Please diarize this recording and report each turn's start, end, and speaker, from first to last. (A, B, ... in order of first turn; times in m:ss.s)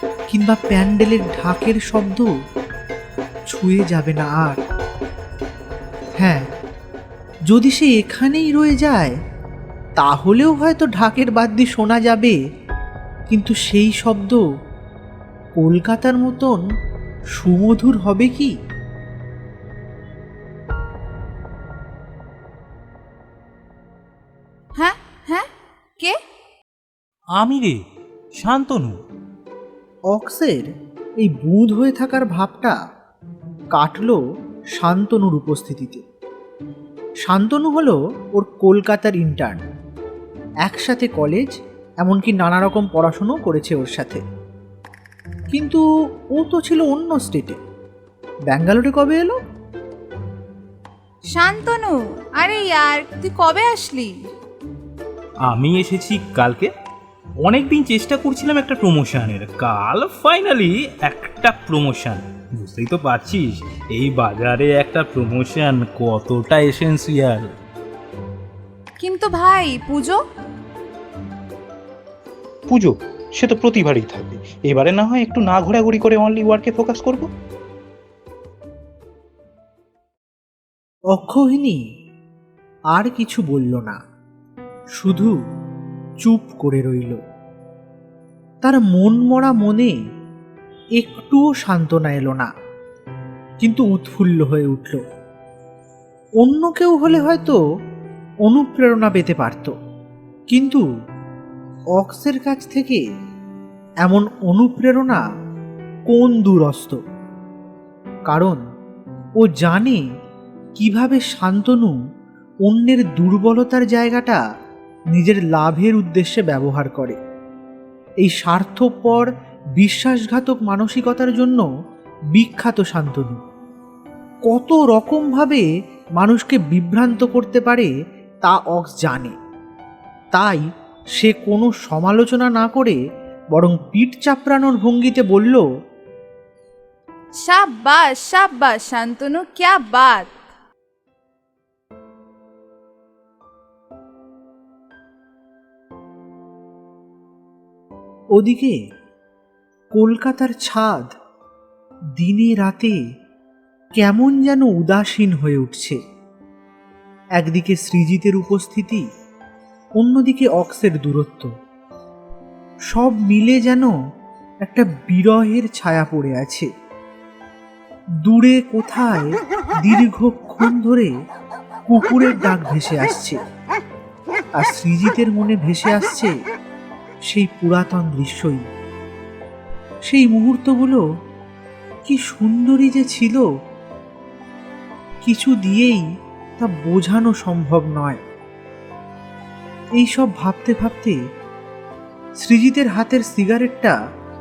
0:00.3-0:02.3 A
0:03.5-0:04.6 A
0:06.2-0:06.4 A
0:07.5-0:09.2 A
0:10.0-0:12.4 A
0:13.3-0:14.4 A
0:15.6-0:16.6 A
0:17.4-0:18.5 A
0:24.8-0:25.5 B
0:27.3-0:27.8 C
0:28.3-0:29.0 C
0:30.1-0:32.8 A
0:33.7-0:34.2 A
0:34.8-0:36.0 A
0:37.2-0:39.6 A
0:40.6-0:44.2 A
0:45.5-0:47.6 A
0:48.5-0:49.4 A
0:51.3-0:54.3 B
0:55.5-0:56.7 C
0:57.4-1:07.5 C
1:09.0-1:10.2 B
1:12.7-1:17.3 D
1:21.1-1:21.8 A
1:22.9-1:24.0 A
1:25.0-1:25.3 A
1:26.2-1:27.2 A
1:28.6-1:30.0 A
1:31.0-1:32.5 A
1:33.6-1:35.0 A
1:36.4-1:37.6 A
1:38.4-1:39.7 A
1:40.5-1:40.8 A
1:42.0-1:43.0 A
1:44.0-1:45.2 A
1:46.1-1:47.0 A
1:48.3-1:48.6 A
1:49.4-1:50.0 A
1:50.8-1:52.0 A
1:52.6-1:54.4 A
1:55.1-1:57.2 A
1:58.2-2:01.6 A
2:02.3-2:03.4 A
2:04.4-2:05.6 A
2:06.2-2:07.9 A
2:08.4-2:09.4 A
2:10.3-2:13.0 A
2:13.5-2:15.6 A
2:17.4-2:20.3 B
2:28.3-2:28.8 A
2:29.9-2:31.1 A
2:32.2-2:33.0 A
2:34.0-2:36.0 A
2:37.4-2:39.0 A
2:40.0-2:41.5 A
2:42.9-2:43.9 A
2:44.6-2:46.7 A
2:48.2-2:51.1 A
2:51.9-2:53.4 A
2:54.5-2:56.4 A
2:57.3-2:58.6 A
3:00.0-3:01.0 A
3:02.0-3:03.5 A
3:05.2-3:06.0 A
3:06.6-3:08.2 A
3:10.0-3:11.2 A
3:12.4-3:14.0 A